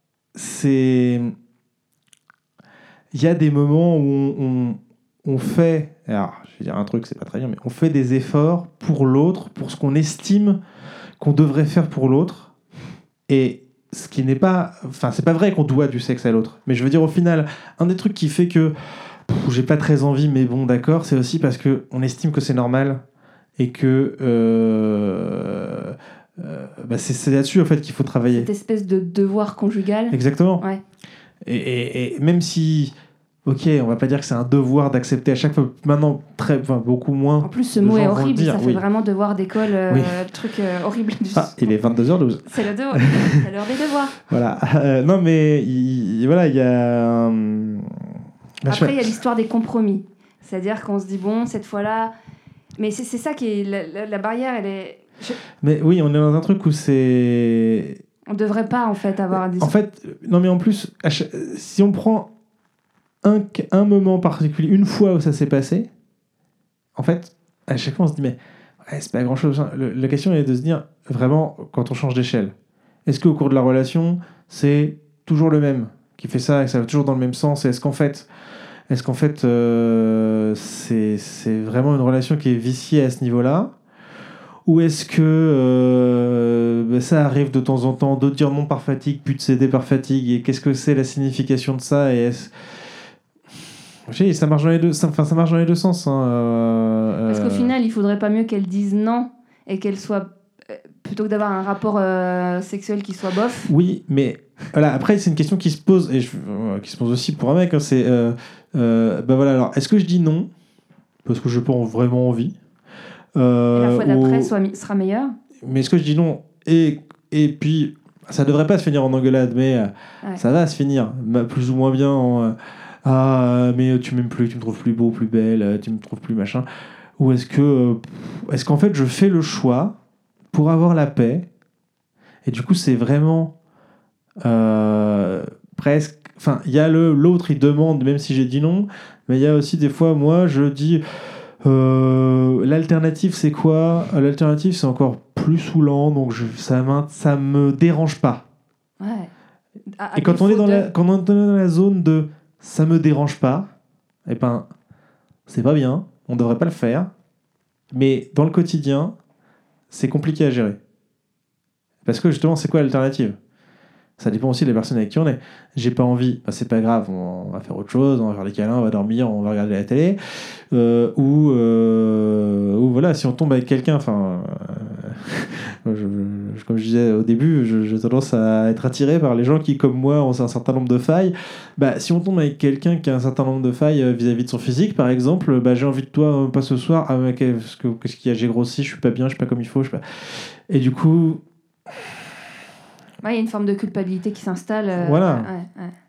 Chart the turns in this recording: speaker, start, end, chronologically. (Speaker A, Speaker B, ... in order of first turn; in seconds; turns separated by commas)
Speaker A: 0.3-1.3, Speaker A: 3.1-10.6, Speaker A: 11.2-12.5, Speaker A: 13.3-23.0, Speaker A: 23.6-28.5, Speaker B: 28.3-30.8, Speaker A: 30.1-30.6, Speaker A: 31.4-32.9, Speaker A: 33.5-38.8, Speaker B: 37.4-41.8, Speaker A: 39.9-40.2, Speaker A: 41.3-43.4, Speaker B: 42.4-44.2, Speaker A: 44.2-49.1, Speaker B: 48.7-52.1, Speaker B: 52.8-55.4, Speaker A: 55.6-58.0, Speaker B: 58.3-59.7, Speaker A: 59.3-62.3, Speaker A: 63.2-65.9, Speaker A: 67.0-72.5, Speaker A: 73.0-78.3, Speaker A: 78.9-83.7, Speaker A: 84.7-92.8, Speaker A: 94.1-97.7, Speaker B: 97.3-103.7, Speaker A: 103.7-110.5, Speaker A: 111.2-112.5, Speaker A: 113.3-114.5, Speaker B: 113.7-115.3, Speaker A: 115.6-126.6, Speaker A: 127.2-129.9, Speaker A: 130.5-131.4, Speaker A: 132.4-133.5, Speaker A: 134.4-148.4, Speaker B: 149.0-149.3, Speaker B: 150.0-150.9, Speaker A: 150.2-153.7, Speaker A: 154.3-154.7, Speaker A: 155.5-157.1, Speaker A: 157.9-159.1, Speaker A: 159.9-160.8, Speaker A: 162.0-163.4, Speaker A: 164.2-192.0, Speaker B: 193.2-195.9, Speaker A: 195.0-195.5